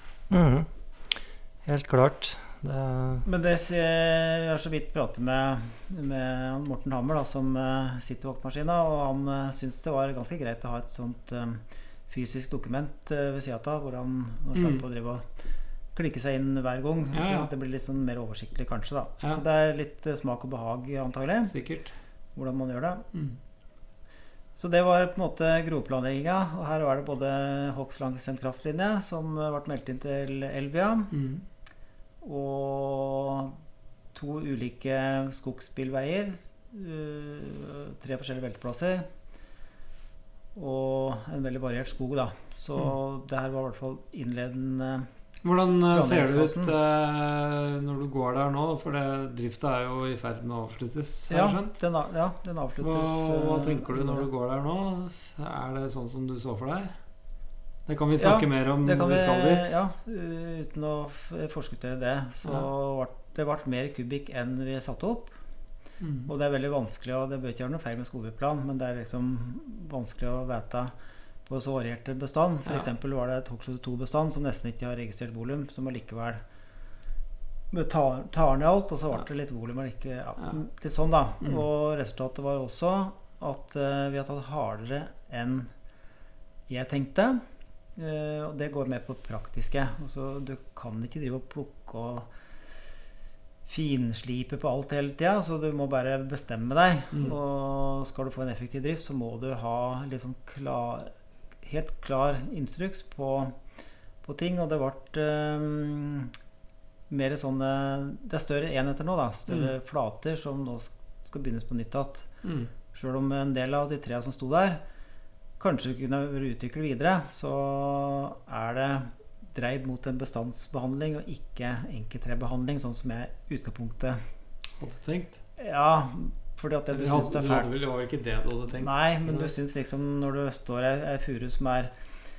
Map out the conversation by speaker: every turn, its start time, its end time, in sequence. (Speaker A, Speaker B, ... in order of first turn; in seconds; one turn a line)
Speaker A: 0.3-1.1
Speaker A: 1.6-3.3
Speaker B: 3.3-15.3
Speaker C: 14.6-14.8
Speaker B: 15.9-21.6
Speaker C: 17.1-17.5
Speaker C: 21.5-21.9
Speaker B: 22.4-23.1
Speaker C: 23.1-23.4
Speaker B: 24.6-31.1
Speaker C: 31.1-31.4
Speaker B: 32.2-33.6
Speaker B: 34.1-39.1
Speaker B: 40.5-45.1
Speaker C: 45.4-51.8
Speaker B: 45.9-46.8
Speaker B: 51.3-54.3
Speaker C: 52.8-56.9
Speaker C: 57.9-59.8
Speaker B: 58.2-65.4
Speaker C: 66.0-66.3
Speaker B: 66.3-70.9
Speaker B: 71.5-76.4
Speaker B: 77.7-85.7
Speaker B: 86.7-87.4
Speaker B: 88.0-92.3
Speaker B: 93.7-101.1
Speaker B: 101.6-103.5
Speaker B: 104.2-106.3
Speaker B: 107.1-112.3
Speaker C: 112.4-112.7
Speaker B: 112.9-114.8
Speaker B: 115.6-124.2
Speaker C: 124.8-125.4
Speaker B: 125.6-127.7
Speaker C: 126.9-129.5
Speaker B: 128.8-131.9